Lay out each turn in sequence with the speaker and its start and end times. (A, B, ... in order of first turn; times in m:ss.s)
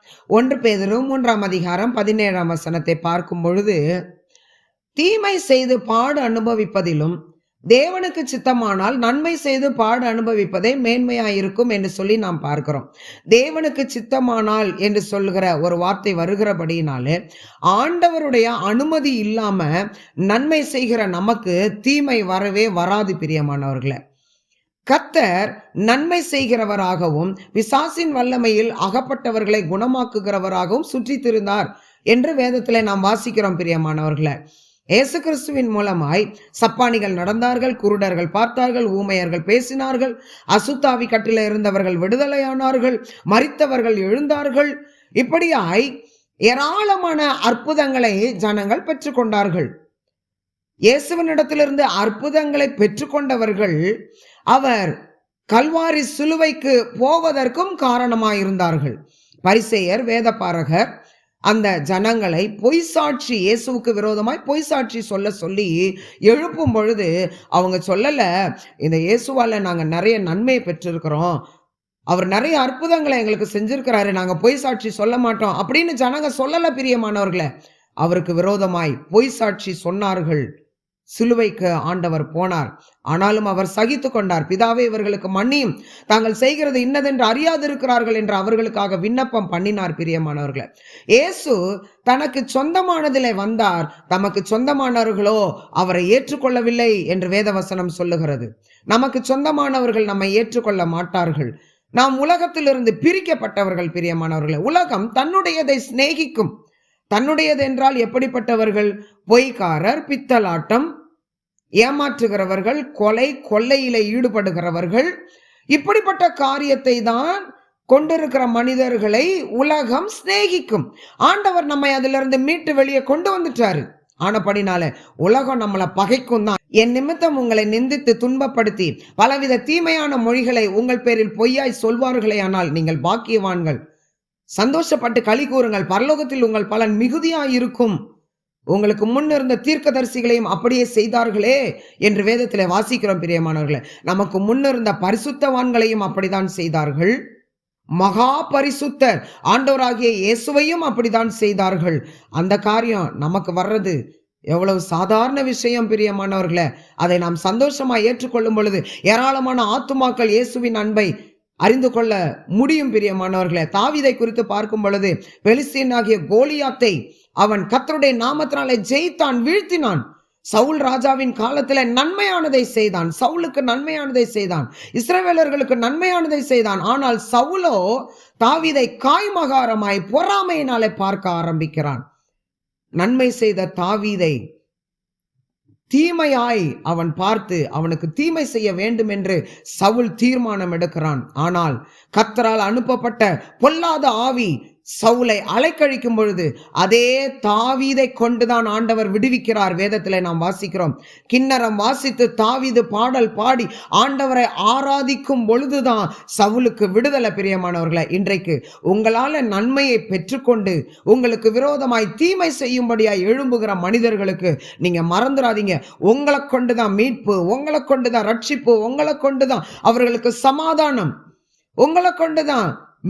0:00.3-0:03.8 A
0:05.0-0:07.2 A
0:07.7-0:17.2 A
0:17.7-0:19.7 A
0:20.3-0:24.0 A
0:24.9-0:34.3 A
0:35.0-0:45.9 A
0:46.5-0:49.7 A
0:50.9-0:53.8 A
0:54.5-0:54.9 A
0:55.5-0:59.0 A
0:59.5-1:00.8 A
1:01.5-1:08.3 A
1:08.8-1:11.4 A
1:12.1-1:17.5 A
1:18.0-1:20.4 A
1:21.1-1:46.5 A
1:47.1-1:50.9 A
1:51.8-1:55.1 A
1:55.7-2:13.8 A
2:14.6-2:18.0 A
2:18.7-2:27.2 A
2:28.0-2:34.0 A
2:34.5-2:41.1 A
2:41.6-2:57.8 A
2:58.4-3:02.0 A
3:03.0-3:04.4 A
3:05.9-3:41.1 A
3:41.8-3:42.7 A